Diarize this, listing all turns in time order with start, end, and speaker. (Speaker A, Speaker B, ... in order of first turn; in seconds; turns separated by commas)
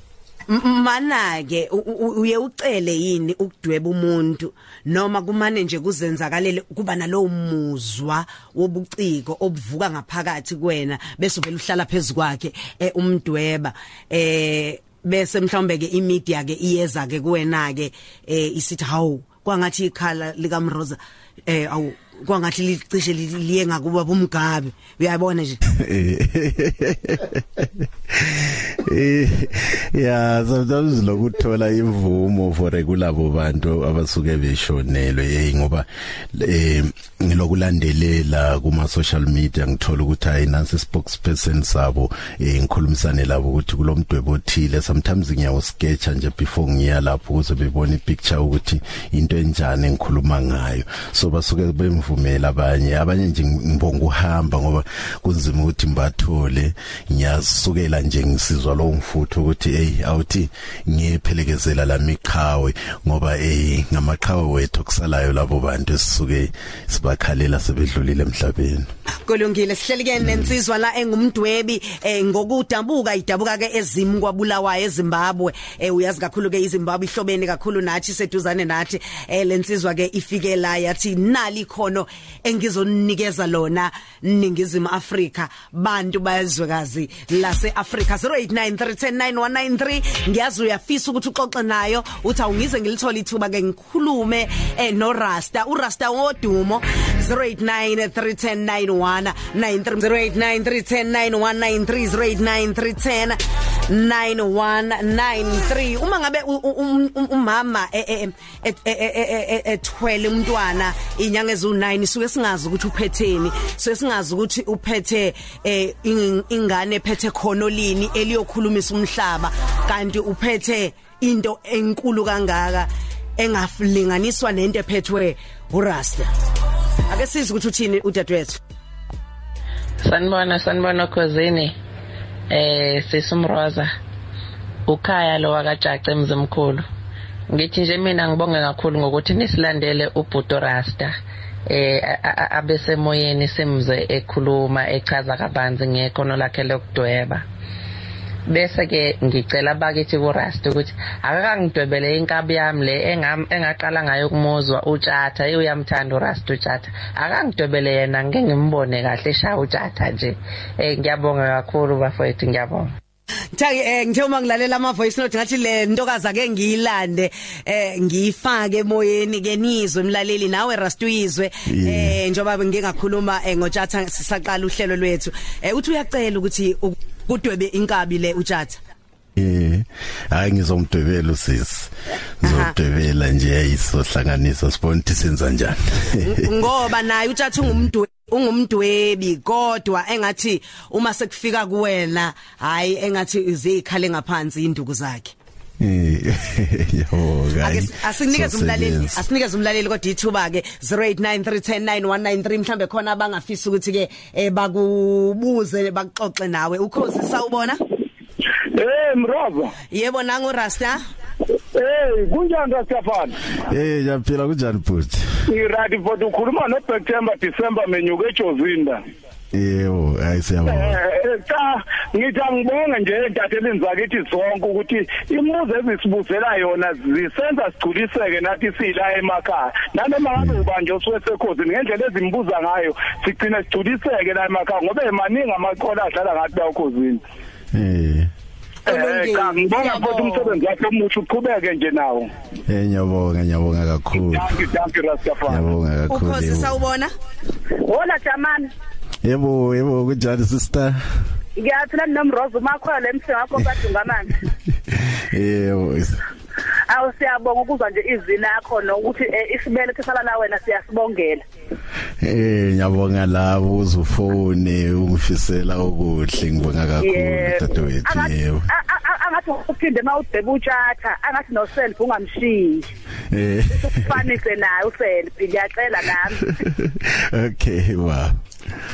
Speaker A: 0.5-25.6, Speaker B: 25.7-68.9, Speaker A: 69.3-126.3, Speaker B: 70.2-70.5, Speaker A: 127.1-128.6, Speaker C: 130.0-131.8, Speaker C: 132.5-133.9, Speaker C: 134.9-136.9, Speaker C: 137.5-141.2, Speaker C: 141.7-147.4, Speaker C: 148.5-162.9, Speaker A: 163.6-178.8, Speaker B: 171.7-172.2, Speaker B: 179.4-186.5, Speaker A: 182.4-182.7, Speaker A: 186.2-195.3, Speaker B: 195.8-199.2, Speaker A: 197.6-207.8, Speaker D: 208.7-209.7, Speaker A: 209.9-211.0, Speaker D: 211.8-213.4, Speaker B: 213.7-215.3, Speaker D: 215.5-219.0, Speaker B: 219.5-221.0, Speaker D: 220.7-237.2, Speaker B: 230.4-230.6, Speaker B: 237.7-238.3, Speaker D: 238.9-242.3, Speaker A: 238.9-240.6, Speaker B: 242.7-244.6, Speaker D: 244.2-245.6, Speaker B: 245.5-246.8, Speaker A: 246.1-247.1, Speaker E: 247.8-248.7, Speaker B: 249.2-251.0, Speaker E: 251.6-254.4, Speaker B: 254.9-256.2, Speaker E: 256.9-261.4, Speaker B: 262.2-268.7, Speaker E: 267.0-272.9, Speaker B: 273.3-274.4, Speaker E: 273.7-276.5, Speaker B: 276.4-278.4